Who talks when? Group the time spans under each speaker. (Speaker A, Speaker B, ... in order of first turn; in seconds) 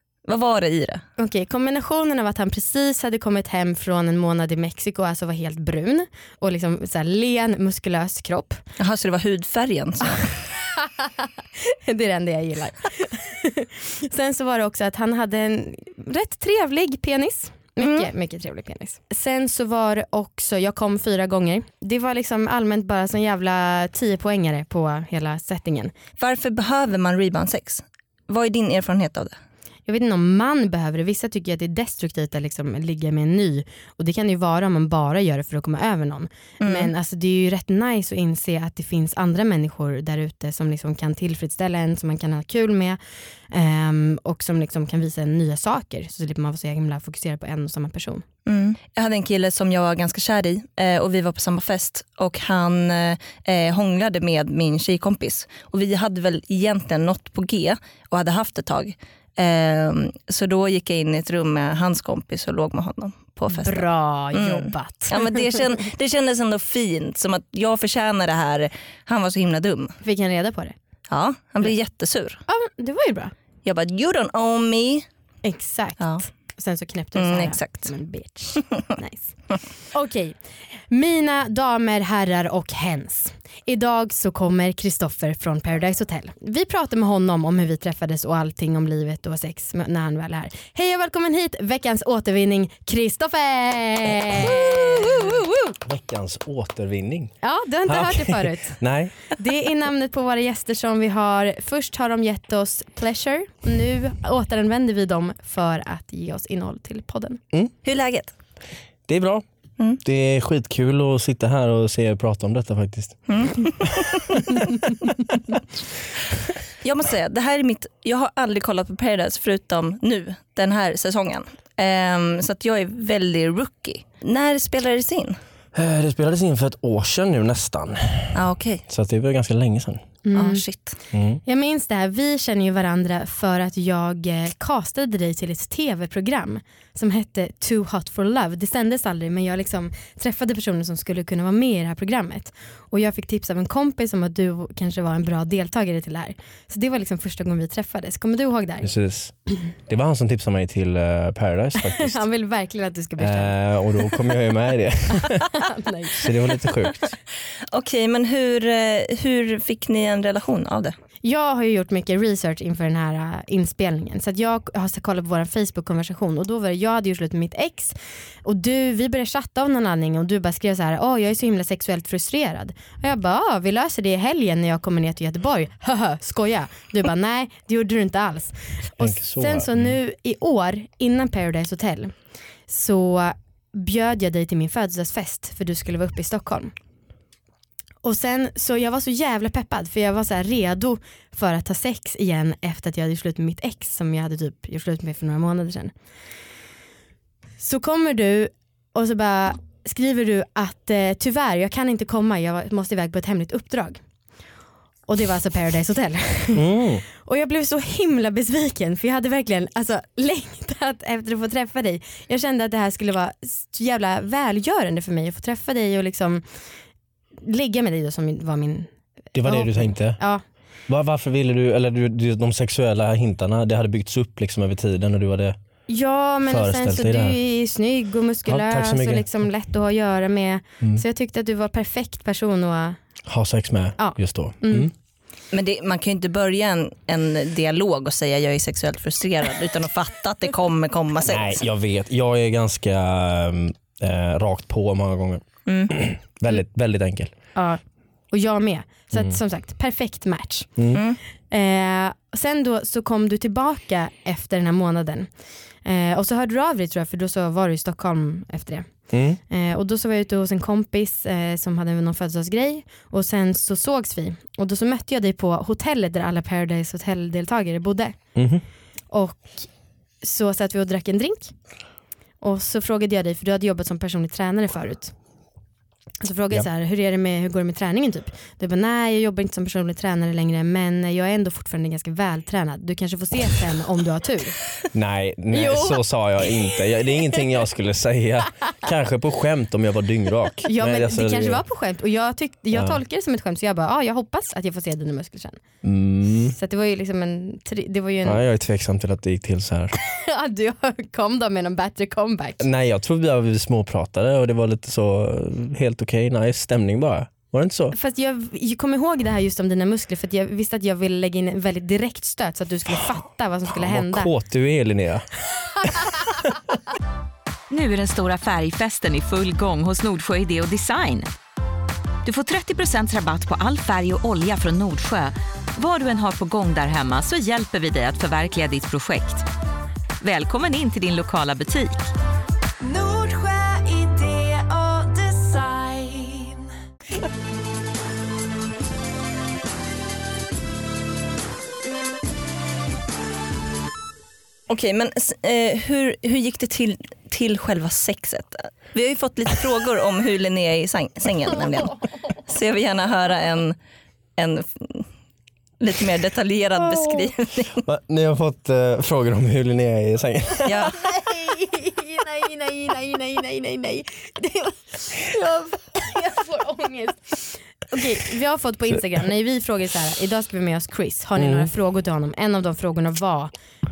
Speaker A: 0.2-1.0, 8.8-10.3, 17.8-18.1, 26.2-29.3, 36.6-36.9, 48.5-70.0, 71.1-72.4, 73.6-75.0, 77.2-77.9, 107.8-108.3, 113.3-114.3, 116.8-125.4, 128.3-128.8, 130.3-131.0, 157.7-160.9, 235.5-241.6, 245.7-245.9, 344.7-353.8, 354.4-355.1, 355.8-357.8, 360.6-361.0
Speaker B: 1.2-8.6, 10.8-25.9, 29.9-43.0, 43.5-48.2, 63.5-65.6, 70.0-70.7, 72.5-73.3, 75.4-79.3, 79.9-80.4, 80.9-95.4, 97.4-98.8, 99.3-107.4, 130.2-130.6, 131.4-148.9, 151.8-153.6, 155.1-156.7, 161.2-182.1, 182.7-186.7, 188.0-195.9, 197.6-204.0, 205.1-216.4, 217.4-220.4, 225.9-233.0, 234.0-234.9, 247.5-250.7, 251.5-255.3, 255.8-268.2, 269.1-269.7, 270.2-271.5, 272.4-275.1, 276.2-284.6, 285.5-286.0, 290.6-295.6, 296.5-298.4, 299.9-302.6, 307.9-314.3, 332.9-336.3, 360.9-373.5
Speaker C: 95.8-97.3, 97.8-99.1, 109.1-109.4, 110.0-113.2, 113.8-114.7, 125.7-128.3, 128.9-130.0, 131.1-131.4, 148.8-149.3, 149.8-152.2, 153.2-155.6, 156.2-157.2, 179.0-179.9, 206.5-207.0, 219.3-220.2, 220.9-225.6, 226.4-227.4, 228.5-229.3, 233.2-234.9, 241.2-247.3, 259.1-259.4, 268.4-268.6, 284.9-291.6, 292.7-293.0, 295.8-296.5, 298.2-299.9, 302.6-307.9, 313.7-315.3, 315.8-316.2, 357.8-360.9, 371.4-371.7
Speaker D: 317.7-321.3, 322.2-329.5, 330.2-332.1